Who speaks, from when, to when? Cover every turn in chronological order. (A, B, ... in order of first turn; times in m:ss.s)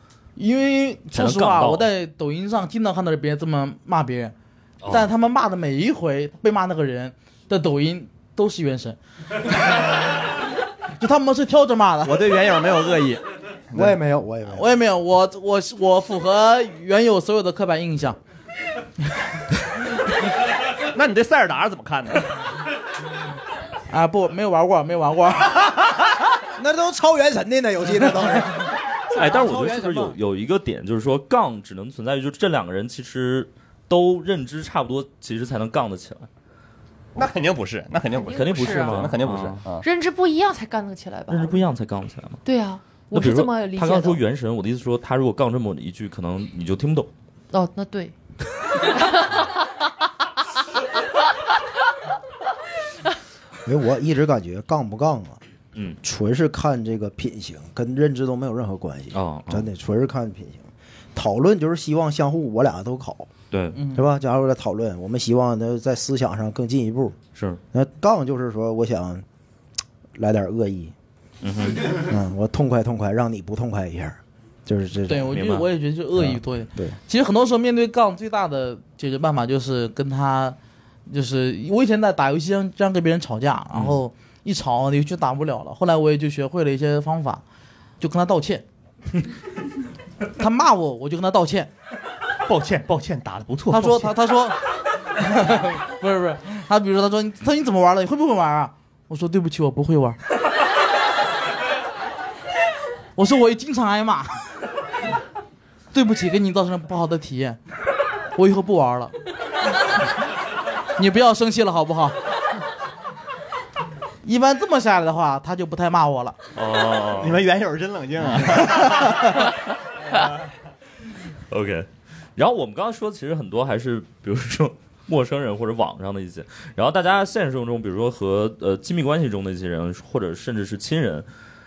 0:00.4-0:04.3 A
0:01.1-0:01.9 B
0:04.8-0:05.1 B
0:04.9-0:09.0 A
0:11.0-0:12.2 A
0:12.0-0:13.2 C
0:13.7-0:14.7 D
0:14.5-0:18.2 A
0:20.9-0:22.3 C
0:23.9-0:25.7 A
0:26.6-0:30.1 D
0:29.1-0:36.3 B
0:37.2-0:39.8 C
0:38.2-0:39.1 E
0:38.3-0:39.6 B
0:39.8-0:41.6 E
0:41.3-0:42.4 B
0:42.4-0:44.2 E
0:43.1-0:47.1 B
0:47.5-0:48.1 E
0:53.6-0:55.4 D
0:56.0-1:03.3 D
0:59.1-0:59.7 B
1:03.5-1:03.8 B
1:03.9-1:07.2 D
1:07.3-1:07.6 B
1:07.7-1:09.2 D
1:10.2-1:10.9 D
1:11.4-1:12.1 B
1:12.0-1:15.4 D
1:15.1-1:20.6 A
1:15.3-1:15.7 B
1:16.2-1:17.0 D
1:21.1-1:27.4 A
1:28.0-1:28.6 A
1:30.4-1:31.7 A
1:32.5-1:34.1 C
1:33.7-1:34.6 A
1:35.2-1:40.2 A
1:43.2-1:44.4 A
1:45.9-1:47.6 A
1:48.4-1:49.1 A
1:51.0-1:52.1 A
1:54.2-1:56.4 A
1:56.5-1:57.4 B
1:57.2-1:59.4 C
2:01.5-2:11.2 B